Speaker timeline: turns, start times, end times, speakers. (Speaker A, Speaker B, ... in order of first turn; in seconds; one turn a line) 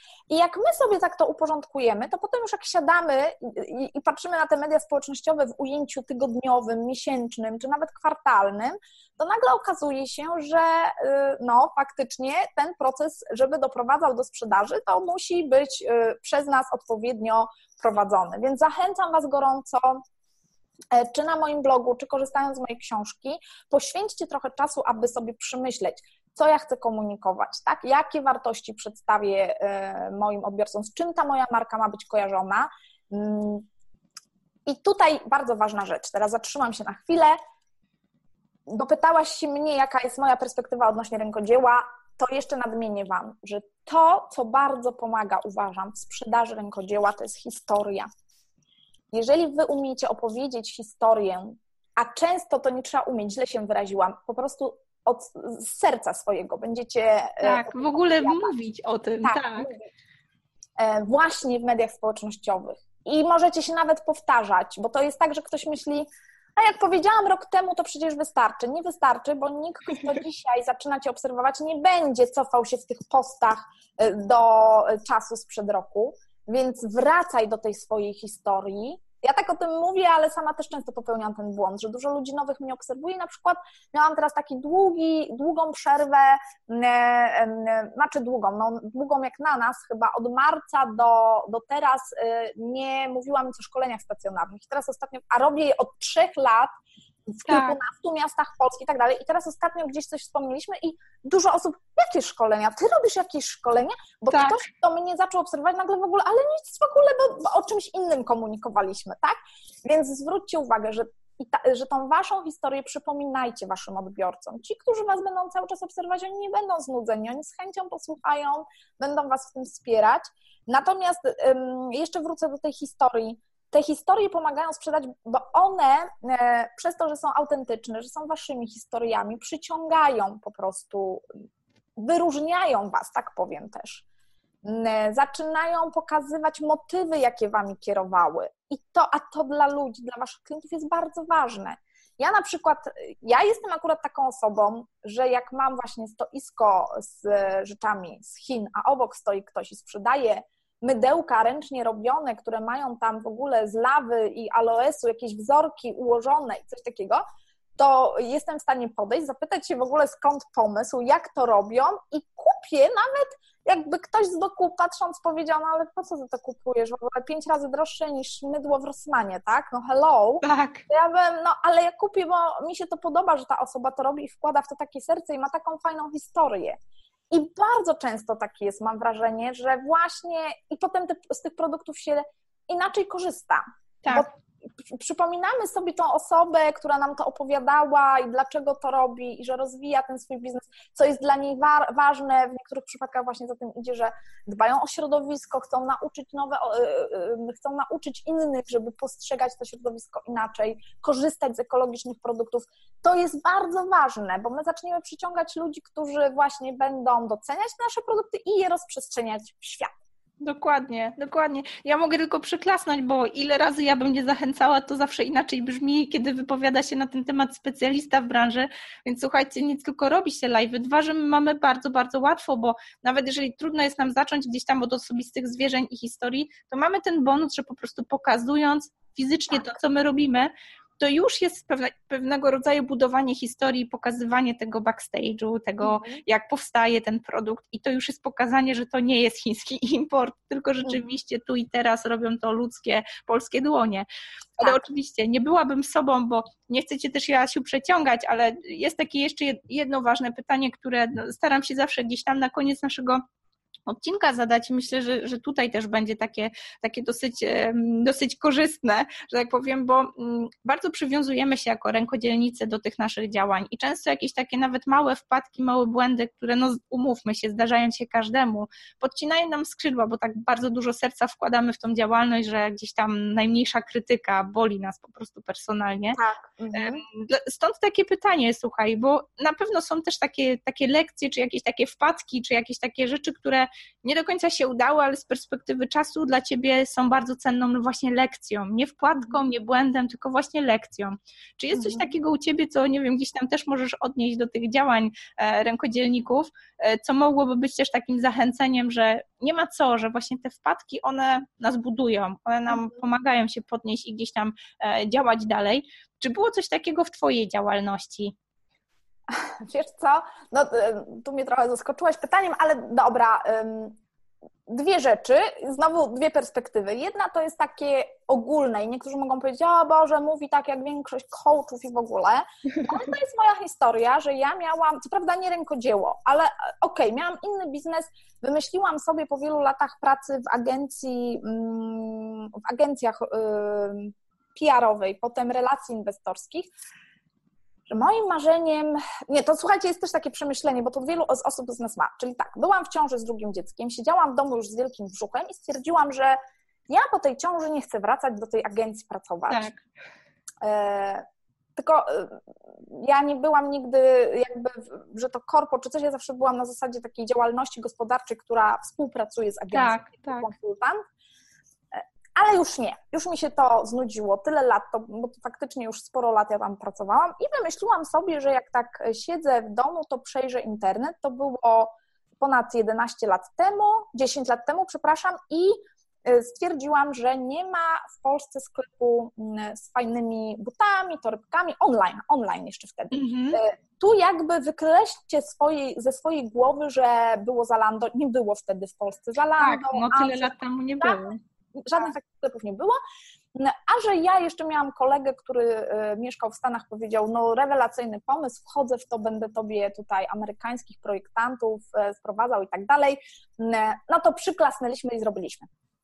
Speaker A: 0.3-20.0
Speaker A: 20.9-33.7
Speaker A: 34.6-37.4
Speaker A: 38.7-48.1
Speaker A: 49.1-58.5
Speaker B: 57.4-59.7
Speaker A: 59.2-59.9
Speaker A: 60.8-96.7
Speaker A: 97.3-131.2
Speaker B: 97.5-97.8
Speaker B: 104.3-104.6
Speaker A: 132.0-134.0
Speaker A: 134.6-157.2
Speaker A: 157.8-176.8
Speaker B: 170.4-170.8
Speaker A: 177.3-209.9
Speaker B: 210.4-244.1
Speaker A: 235.8-236.2
Speaker B: 244.6-253.2
Speaker B: 253.9-276.2
Speaker A: 276.1-277.0
Speaker B: 276.7-308.3
Speaker A: 291.7-292.1
Speaker A: 309.3-314.0
Speaker A: 314.7-336.7
Speaker A: 337.9-346.4
Speaker A: 346.9-349.7
Speaker B: 349.5-349.8
Speaker A: 350.6-351.2
Speaker A: 351.8-361.0
Speaker B: 359.7-360.5
Speaker A: 361.9-393.0
Speaker B: 383.1-383.6
Speaker B: 389.6-391.4
Speaker A: 393.5-405.7